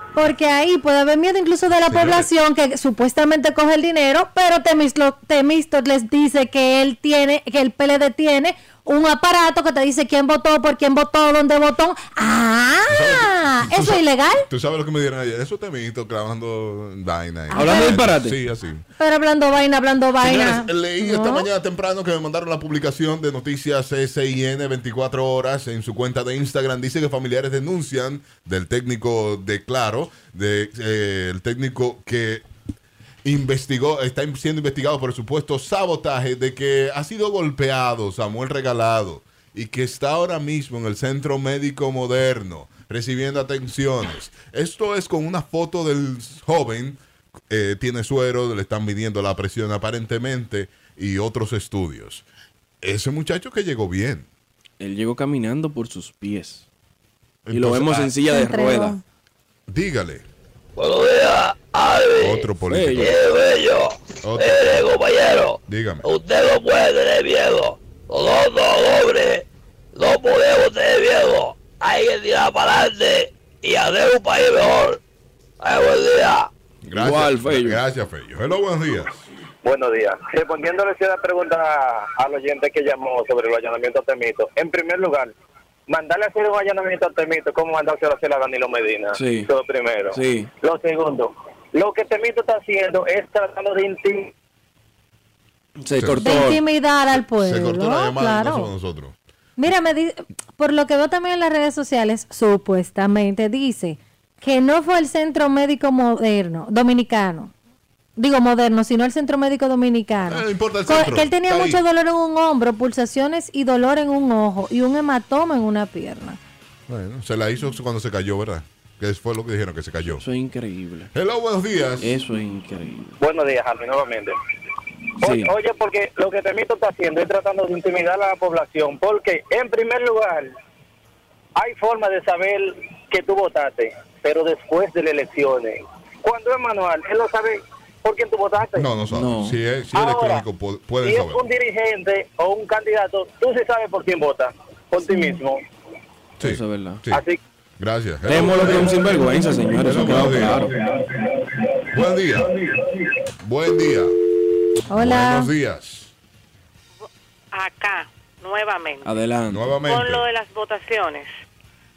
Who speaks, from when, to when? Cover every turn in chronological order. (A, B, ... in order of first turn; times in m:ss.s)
0:00.2-0:14.5 A
0:01.9-0:02.3 B
0:12.9-0:18.8 B
0:17.5-0:18.0 A
0:17.5-0:18.4 C
0:19.0-0:21.5 A
0:20.2-0:32.4 B
0:33.2-0:47.0 B
0:47.5-0:52.2 B
0:52.8-0:54.3 B
0:54.8-0:56.6 C
0:57.5-0:58.1 B
0:57.5-0:59.0 C
0:58.3-0:59.0 A
0:59.7-1:00.2 B
1:00.8-1:02.5 D
1:02.2-1:03.2 B
1:02.7-1:03.2 C
1:03.0-1:09.4 D
1:04.2-1:04.9 B
1:05.6-1:06.1 B
1:10.0-1:15.0 D
1:15.6-1:16.5 D
1:16.8-1:19.2 B
1:17.0-1:17.8 C
1:19.6-1:25.3 E
1:25.9-1:34.3 E
1:29.1-1:29.5 C
1:30.1-1:30.5 C
1:35.8-1:36.6 C
1:36.0-1:36.5 B
1:36.2-1:38.7 A
1:37.1-1:39.2 B
1:39.6-1:47.5 A
1:48.2-1:56.4 A
1:50.3-1:51.8 B
1:56.9-2:00.2 B
2:00.2-2:01.1 C
2:01.1-2:02.2 B
2:02.0-2:03.2 C
2:03.2-2:04.4 E
2:05.2-2:05.5 C
2:05.2-2:10.5 E
2:11.6-2:18.9 E
2:18.8-2:21.4 B
2:19.1-2:19.6 C
2:19.9-2:20.4 E
2:21.0-2:25.6 E
2:25.1-2:25.4 A
2:26.4-2:27.2 B
2:26.4-2:27.0 C
2:27.1-2:27.4 E
2:27.8-2:29.3 B
2:28.3-2:30.7 C
2:29.8-2:30.7 B
2:31.9-2:32.6 B
2:33.4-2:34.1 B
2:34.9-2:35.5 A
2:35.0-2:36.1 B
2:37.5-2:39.2 F
2:39.0-2:39.7 C
2:39.5-2:40.2 B
2:39.8-2:41.3 F